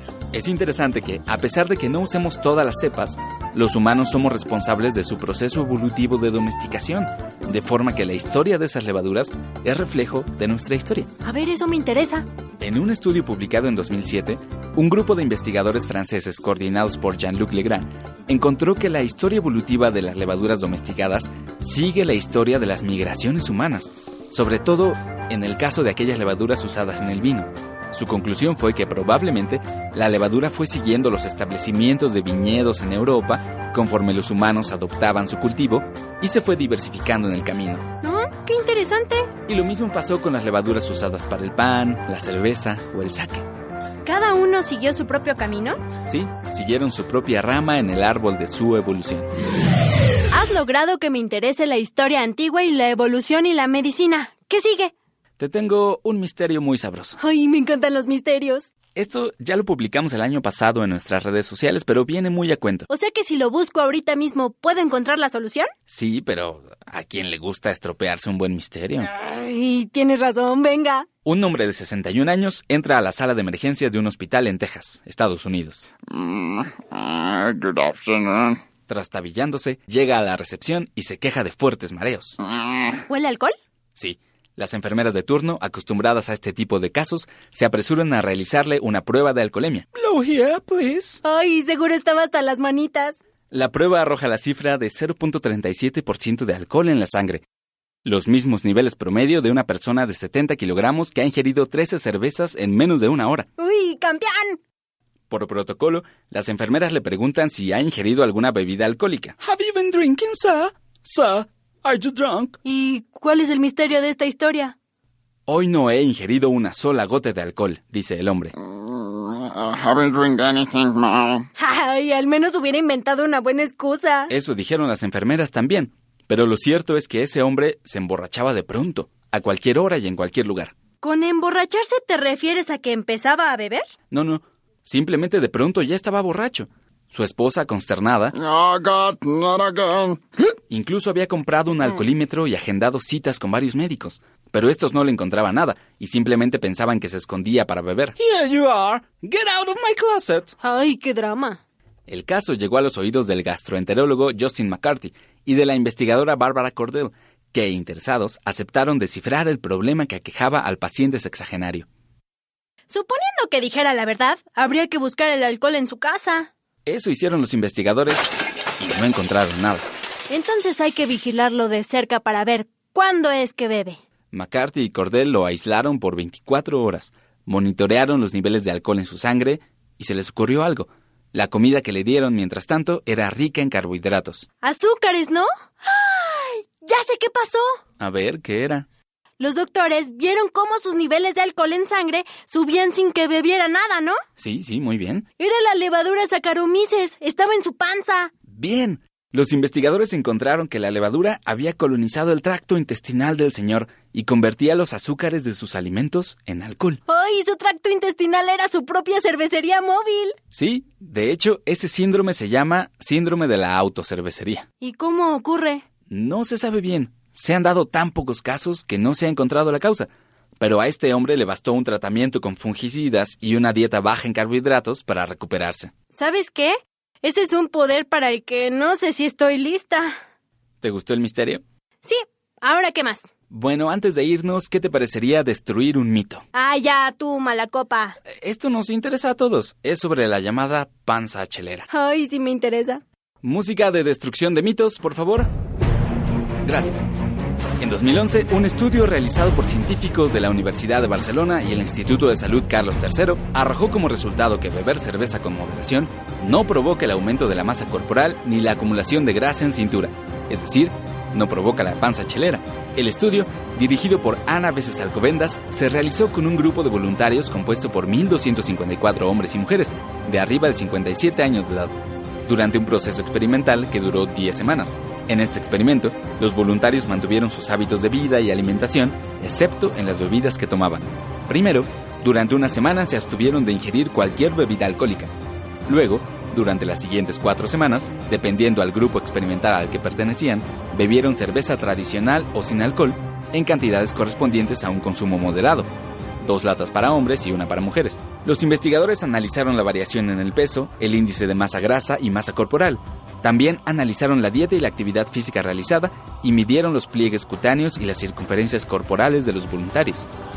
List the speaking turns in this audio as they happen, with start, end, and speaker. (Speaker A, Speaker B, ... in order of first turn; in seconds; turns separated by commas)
Speaker A: 0.3-11.1, Speaker B: 11.2-12.2, Speaker A: 12.6-37.8, Speaker B: 38.0-39.3, Speaker A: 39.5-43.5, Speaker B: 44.0-45.8, Speaker A: 46.1-49.3, Speaker B: 50.3-54.9, Speaker A: 55.4-57.2, Speaker B: 57.2-58.7, Speaker A: 58.9-62.9, Speaker B: 62.9-65.7, Speaker A: 65.9-69.1, Speaker B: 69.0-71.1, Speaker A: 71.2-75.9, Speaker C: 76.4-78.6, Speaker A: 78.9-82.4, Speaker B: 83.1-83.5, Speaker A: 84.0-91.2, Speaker B: 91.2-93.2, Speaker A: 93.5-97.4, Speaker A: 98.0-103.5, Speaker B: 103.6-104.6, Speaker A: 105.3-112.6, Speaker B: 112.6-114.7, Speaker A: 115.5-118.5, Speaker C: 119.3-121.4, Speaker B: 121.5-124.3, Speaker A: 124.3-130.7, Speaker B: 131.0-133.9, Speaker A: 134.1-138.5, Speaker C: 138.5-140.2, Speaker A: 140.7-150.5, Speaker B: 150.6-151.6, Speaker A: 152.1-161.9, Speaker B: 162.9-166.5, Speaker A: 166.8-169.8, Speaker B: 170.3-174.0, Speaker A: 174.3-184.5, Speaker B: 184.6-187.7, Speaker A: 188.0-188.8, Speaker B: 189.4-194.2, Speaker A: 194.4-195.2, Speaker B: 195.4-198.3, Speaker A: 198.5-207.0, Speaker B: 207.1-210.3, Speaker A: 210.5-214.7, Speaker B: 214.8-215.8, Speaker A: 216.1-220.1, Speaker A: 220.6-225.9, Speaker B: 226.1-230.1, Speaker A: 230.8-231.6, Speaker B: 232.0-233.3, Speaker A: 233.5-236.4, Speaker B: 236.5-238.2, Speaker A: 238.3-241.9, Speaker B: 241.9-243.0, Speaker A: 243.4-245.5, Speaker A: 246.6-247.0, Speaker A: 247.8-285.3, Speaker A: 285.9-295.9, Speaker A: 296.4-310.3